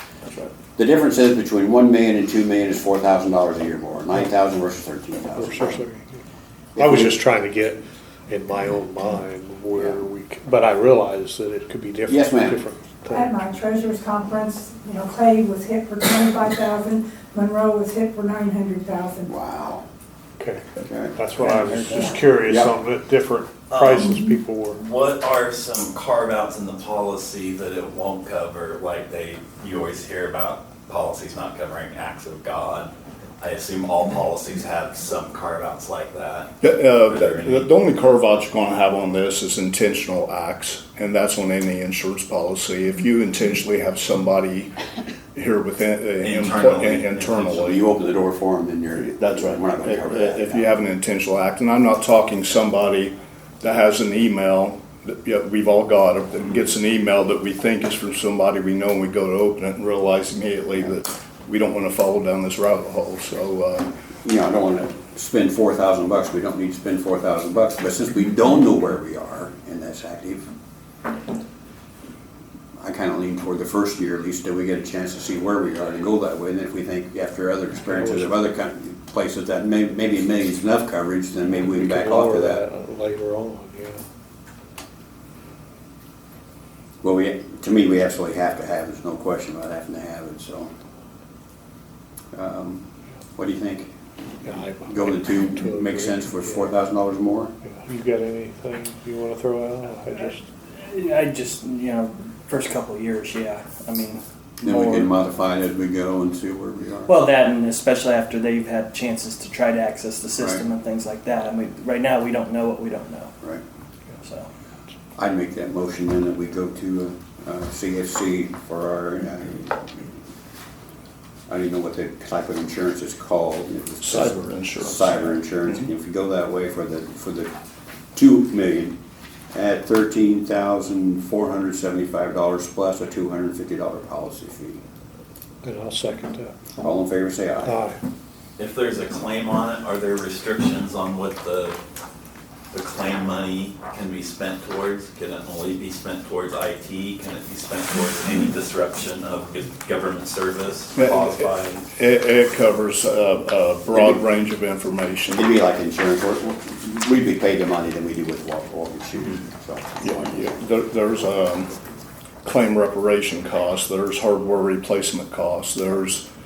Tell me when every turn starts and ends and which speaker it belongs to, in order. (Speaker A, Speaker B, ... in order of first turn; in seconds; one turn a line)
Speaker A: 0.8-5.8
Speaker B: 5.4-6.1
Speaker A: 6.8-7.2
Speaker B: 6.8-13.5
Speaker A: 9.7-10.0
Speaker A: 12.1-12.6
Speaker C: 13.1-19.2
Speaker A: 19.2-19.9
Speaker A: 20.8-21.2
Speaker B: 21.2-24.8
Speaker D: 21.4-22.2
Speaker A: 22.4-22.8
Speaker E: 23.7-37.7
Speaker F: 36.6-44.7
Speaker F: 45.4-47.8
Speaker E: 46.2-47.4
Speaker A: 47.5-50.7
Speaker F: 49.0-63.9
Speaker A: 64.2-70.5
Speaker A: 72.8-82.7
Speaker B: 77.9-78.3
Speaker B: 81.6-84.0
Speaker A: 87.0-90.7
Speaker A: 92.3-92.8
Speaker A: 93.4-93.9
Speaker B: 94.5-96.7
Speaker A: 94.7-97.5
Speaker B: 97.6-100.5
Speaker D: 100.1-105.1
Speaker A: 104.6-107.2
Speaker D: 107.1-113.3
Speaker A: 110.4-110.6
Speaker D: 114.2-114.5
Speaker A: 115.2-119.9
Speaker A: 121.5-127.5
Speaker F: 124.0-125.9
Speaker A: 128.2-129.0
Speaker A: 129.5-134.8
Speaker B: 135.6-136.5
Speaker A: 136.8-137.8
Speaker B: 137.7-138.0
Speaker E: 138.6-141.8
Speaker E: 142.7-151.9
Speaker F: 151.0-155.4
Speaker A: 153.9-154.2
Speaker A: 155.3-160.5
Speaker F: 160.0-161.7
Speaker F: 162.4-166.2